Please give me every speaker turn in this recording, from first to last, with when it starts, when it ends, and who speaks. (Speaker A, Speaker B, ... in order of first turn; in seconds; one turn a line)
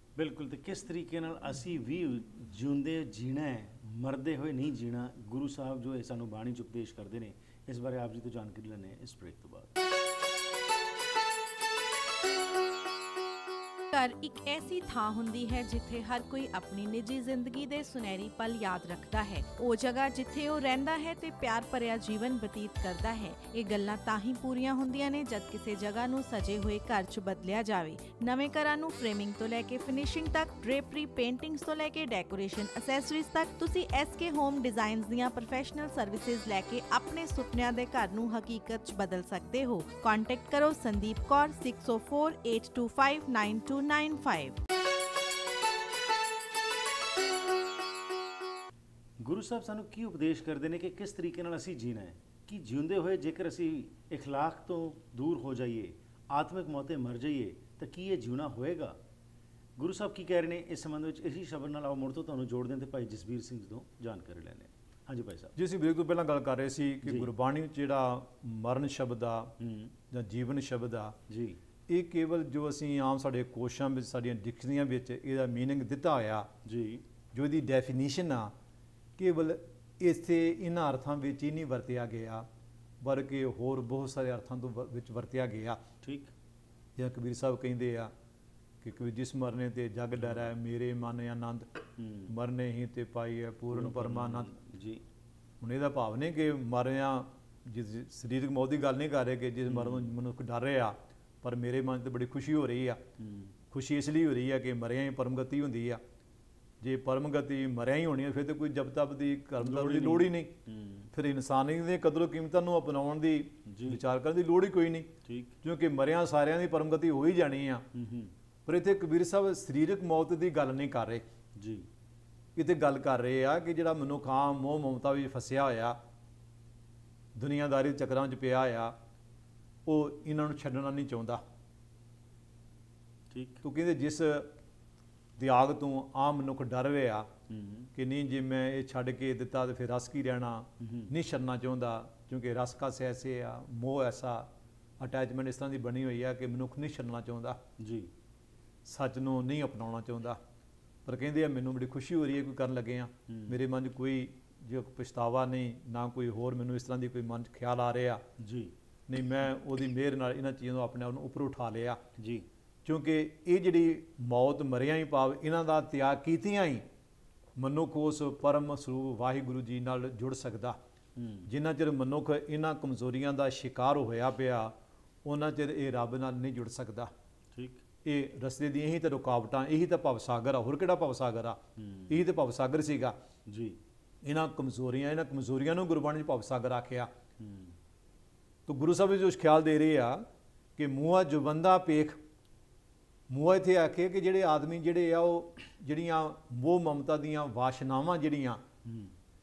Speaker A: 0.1-9.7
Speaker B: 13.9-44.6
Speaker A: 49.2-59.0
Speaker A: 59.8-65.5
Speaker C: 65.5-69.5
Speaker A: 67.0-67.3
Speaker A: 69.6-69.9
Speaker C: 70.1-71.2
Speaker A: 71.3-71.6
Speaker C: 71.9-76.5
Speaker A: 76.6-77.0
Speaker C: 77.3-78.5
Speaker C: 79.2-82.5
Speaker C: 83.0-85.8
Speaker A: 86.0-86.3
Speaker C: 87.0-88.1
Speaker C: 88.8-91.7
Speaker A: 90.2-90.5
Speaker A: 92.0-92.3
Speaker C: 92.3-94.5
Speaker A: 93.7-95.0
Speaker C: 95.6-103.0
Speaker A: 99.7-100.1
Speaker A: 103.2-103.5
Speaker C: 103.7-106.0
Speaker C: 106.8-110.5
Speaker A: 109.6-111.1
Speaker C: 111.1-117.8
Speaker A: 113.7-114.0
Speaker A: 115.2-115.5
Speaker A: 117.9-118.3
Speaker C: 118.7-121.2
Speaker A: 121.6-121.8
Speaker C: 122.5-126.0
Speaker C: 127.3-128.9
Speaker C: 129.8-131.4
Speaker A: 133.3-133.6
Speaker C: 133.6-134.5
Speaker C: 135.3-137.3
Speaker A: 137.5-137.9
Speaker C: 137.9-147.6
Speaker A: 140.8-141.1
Speaker A: 147.8-148.1
Speaker C: 148.8-150.4
Speaker C: 151.0-158.2
Speaker A: 153.3-153.6
Speaker A: 158.4-158.7
Speaker C: 159.1-162.0
Speaker A: 162.2-162.4
Speaker C: 162.8-166.8
Speaker C: 167.6-170.8
Speaker A: 171.2-171.5
Speaker C: 171.5-177.1
Speaker A: 177.5-177.8
Speaker C: 178.0-183.2
Speaker A: 181.8-182.2
Speaker A: 183.5-183.8
Speaker C: 184.2-187.1
Speaker A: 187.4-187.8
Speaker C: 188.7-192.2
Speaker C: 193.3-198.6
Speaker A: 198.8-199.1